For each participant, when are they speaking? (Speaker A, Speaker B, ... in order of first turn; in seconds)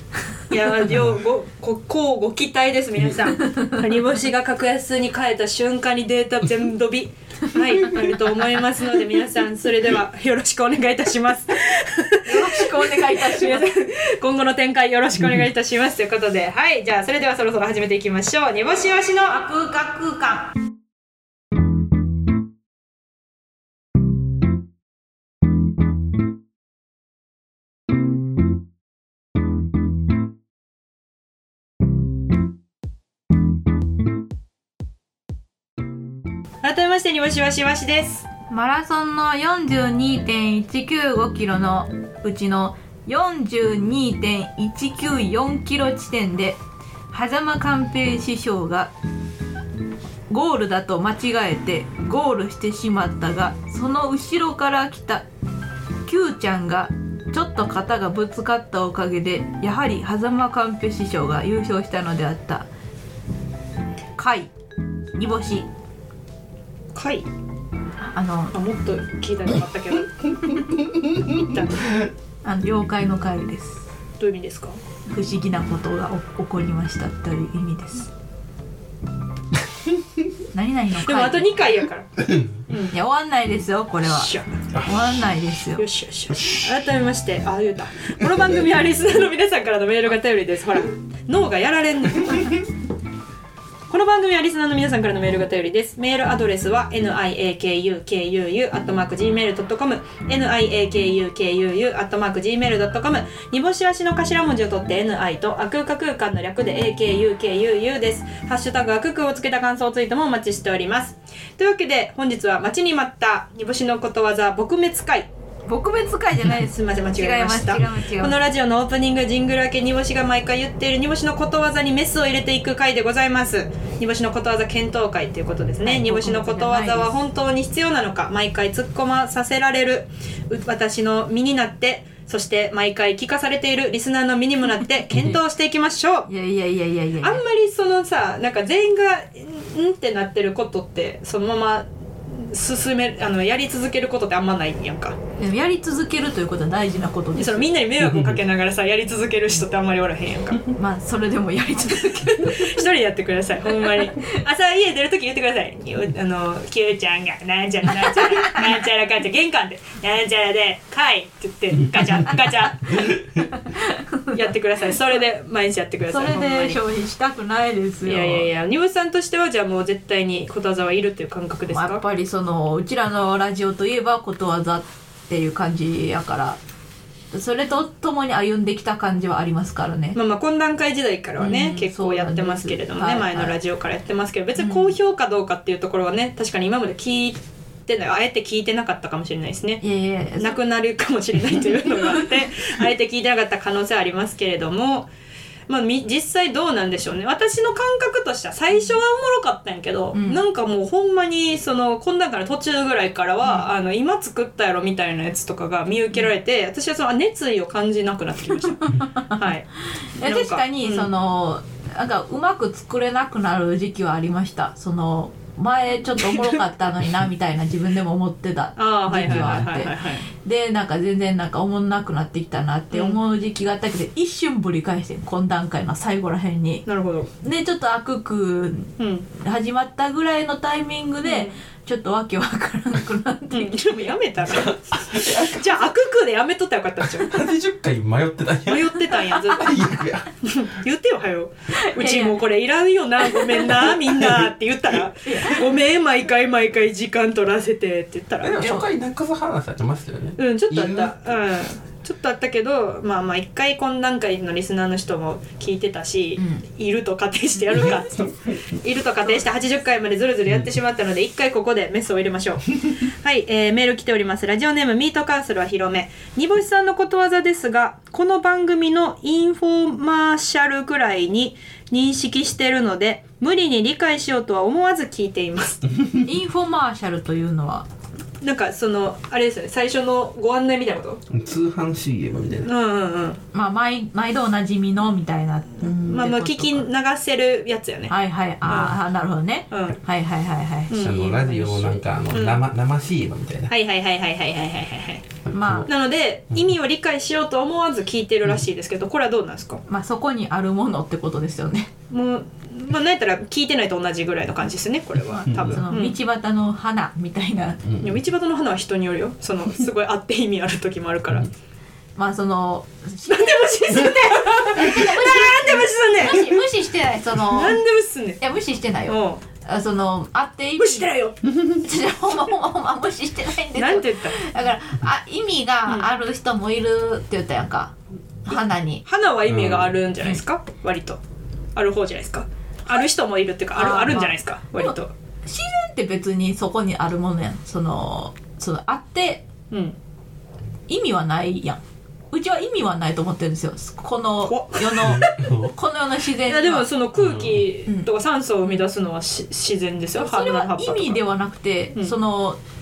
Speaker A: 0.5-19.4, 36.6-38.2, 67.0-67.3, 68.5-70.5, 71.3-71.9, 74.2-74.8, 81.0-82.1, 82.7-83.0, 84.0-84.5, 85.8-92.6, 93.9-115.3, 116.6-136.3, 137.2-145.2, 147.3-150.7, 152.4-163.2, 164.3-166.8, 168.0-172.0, 180.1-189.8, 190.4-195.1, 195.7-209.7, 210.2-211.1, 218.8-220.3, 222.9-223.2, 226.9-227.3, 229.0-229.3, 231.2-231.6, 233.5-237.4, 238.7-248.6, 250.4-275.9, 278.4-281.2, 282.6-283.4, 285.9-289.0, 289.7-290.0, 290.9-291.7, 292.3-292.6, 293.7-295.3, 295.9-299.8, 302.1-306.1, 308.0-311.5, 313.3-316.6, 317.5-318.4, 319.1-319.4, 320.8-321.3, 323.8-324.4, 329.1-331.2, 331.8-335.1, 339.7-340.0, 344.4-345.4, 346.4-351.2
Speaker B: 12.2-13.7, 19.3-20.5, 38.5-46.6, 47.1-48.9, 50.3-55.2, 56.0-62.7, 64.2-64.5, 65.1-65.7, 68.0-68.5, 72.4-73.8, 75.1-78.1, 80.5-81.6, 82.9-85.9, 115.7-118.4, 125.8-127.2, 136.3-137.4, 145.4-147.7, 150.7-152.8, 153.7-154.4, 158.1-158.6, 163.5-164.4, 166.1-168.5, 171.7-176.6, 177.3-180.2, 181.4-183.6, 184.6-184.9, 189.8-190.6, 192.0-192.4, 200.1-200.4, 209.0-209.5, 210.2-226.8, 227.4-234.1, 241.8-242.4, 243.2-243.7, 245.2-245.8, 248.6-248.9, 256.4-256.6, 276.2-277.9, 283.5-286.9, 288.1-292.0, 295.5-295.9, 299.9-301.9, 305.3-307.8, 312.1-317.8, 318.4-329.0, 333.7-339.4, 340.9-346.9, 350.1-352.6
Speaker C: 82.2-82.6, 148.0-148.4, 219.3-219.5, 234.5-235.8, 237.2-240.3, 248.4-251.1, 281.3-282.7, 290.9-293.7, 295.4-295.9, 305.4-305.8, 307.9-308.1, 329.4-330.0, 345.0-345.7, 347.2-347.6